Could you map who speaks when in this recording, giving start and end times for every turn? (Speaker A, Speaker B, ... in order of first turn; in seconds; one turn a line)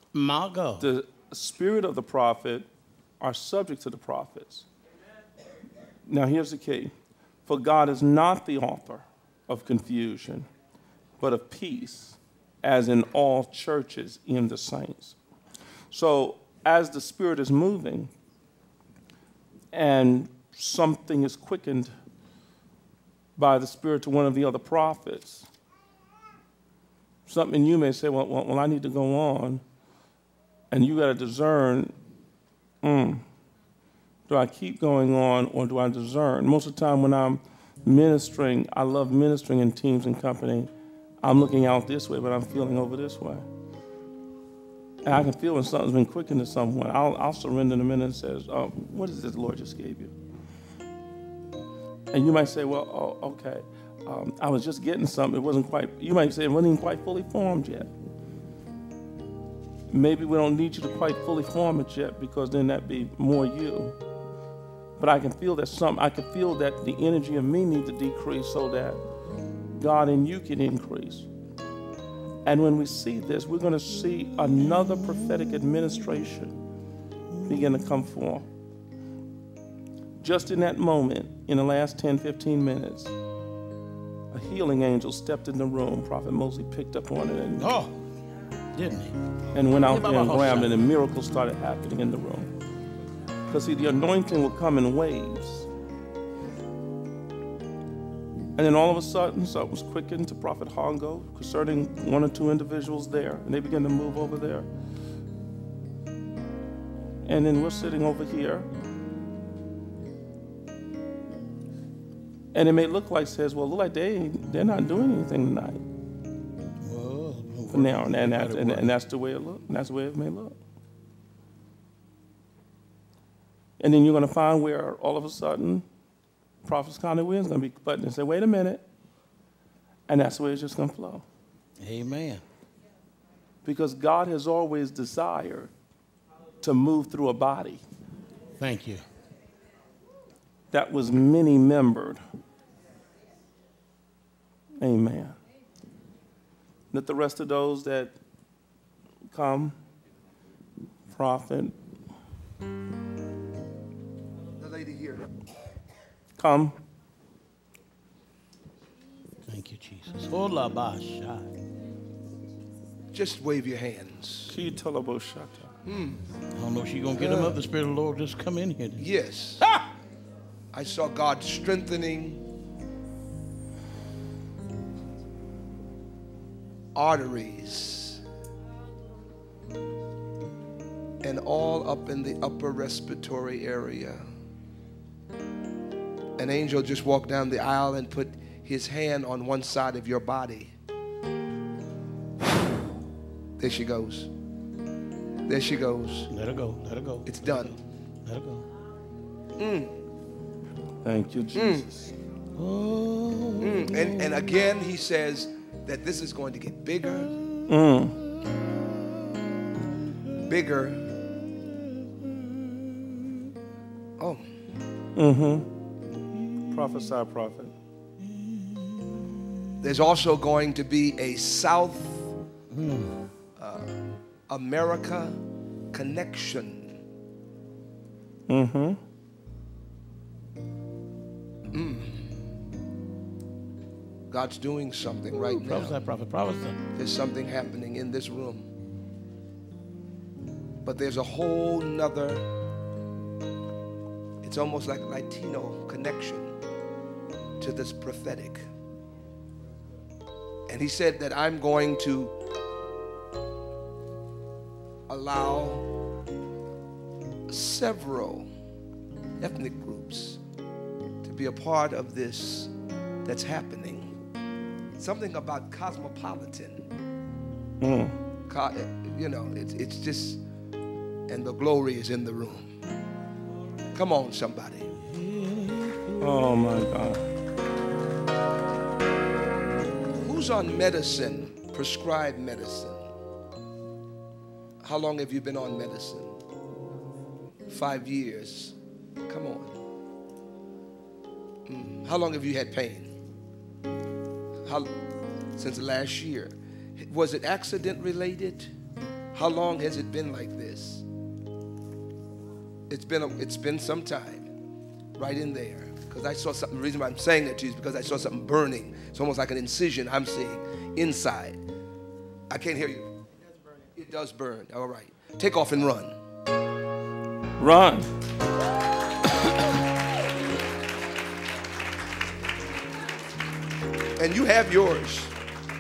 Speaker A: 0.1-0.9
Speaker B: 0.8-2.7
Speaker B: 3.2-4.7
Speaker B: 6.1-6.9
Speaker B: 7.5-10.5
Speaker B: 11.2-15.2
Speaker B: 15.9-18.1
Speaker B: 19.7-21.9
Speaker B: 23.4-25.5
Speaker B: 27.3-29.6
Speaker B: 30.7-31.9
Speaker B: 32.8-33.2
Speaker B: 34.3-40.7
Speaker B: 41.2-43.5
Speaker B: 45.0-50.1
Speaker B: 52.1-57.9
Speaker B: 59.9-64.0
Speaker B: 65.0-69.0
Speaker B: 69.8-71.3
Speaker B: 72.5-76.6
Speaker B: 77.4-78.5
Speaker B: 80.2-83.1
Speaker B: 84.3-87.7
Speaker A: 87.6-88.0
Speaker A: 88.7-89.2
Speaker B: 89.5-92.5
Speaker A: 89.8-90.8
Speaker B: 93.5-95.7
Speaker B: 98.6-104.7
Speaker B: 107.3-108.7
Speaker B: 112.5-115.8
Speaker A: 116.8-118.9
Speaker B: 117.7-120.6
Speaker B: 123.8-125.8
Speaker B: 126.6-128.8
Speaker B: 130.1-131.2
Speaker A: 131.8-132.4
Speaker B: 133.7-135.7
Speaker B: 136.6-137.8
Speaker A: 138.6-139.0
Speaker B: 140.7-142.2
Speaker B: 144.8-145.4
Speaker B: 146.9-148.1
Speaker B: 149.3-149.8
Speaker B: 151.1-151.8
Speaker C: 154.6-155.3
Speaker B: 156.4-156.8
Speaker A: 159.5-161.5
Speaker C: 163.1-164.6
Speaker B: 164.5-165.7
Speaker C: 165.8-166.2
Speaker A: 166.5-169.1
Speaker C: 167.2-167.6
Speaker C: 169.0-169.7
Speaker A: 169.6-169.9
Speaker C: 170.7-172.4
Speaker C: 176.9-178.2
Speaker C: 181.2-184.2
Speaker C: 186.4-190.7
Speaker C: 193.6-194.3
Speaker C: 195.5-196.3
Speaker A: 196.3-198.7
Speaker C: 197.2-197.8
Speaker C: 199.6-200.0
Speaker B: 201.0-202.1
Speaker C: 201.5-201.9
Speaker A: 202.6-204.5
Speaker C: 203.6-207.4
Speaker B: 207.7-208.2
Speaker C: 210.5-211.2
Speaker A: 211.5-213.2
Speaker C: 214.2-214.5
Speaker B: 215.2-215.7
Speaker B: 216.7-217.7
Speaker A: 218.3-219.2
Speaker C: 219.8-222.3
Speaker A: 222.7-223.2
Speaker C: 223.6-225.4
Speaker C: 225.9-227.0
Speaker B: 228.5-229.0
Speaker C: 231.7-232.3
Speaker C: 234.3-236.0
Speaker A: 235.3-236.8
Speaker C: 236.9-238.7
Speaker C: 240.8-242.4
Speaker C: 244.4-246.6
Speaker C: 247.6-248.7
Speaker C: 250.7-252.3
Speaker C: 255.1-255.9
Speaker C: 257.5-258.5
Speaker C: 259.4-260.4
Speaker C: 261.2-262.7
Speaker C: 263.2-264.1
Speaker C: 265.0-266.9
Speaker B: 267.8-268.2
Speaker C: 268.5-270.4
Speaker C: 271.3-272.7
Speaker C: 273.9-274.9
Speaker A: 275.2-276.3
Speaker B: 276.2-277.2
Speaker C: 280.2-283.1
Speaker C: 284.8-286.4
Speaker C: 287.7-288.8
Speaker C: 289.3-289.8
Speaker C: 291.7-293.1
Speaker C: 294.7-294.9
Speaker C: 295.6-298.7
Speaker C: 299.3-301.1
Speaker C: 302.9-304.5
Speaker C: 305.2-311.6
Speaker C: 312.5-313.1
Speaker C: 313.9-316.2
Speaker B: 317.6-318.1
Speaker C: 324.2-325.4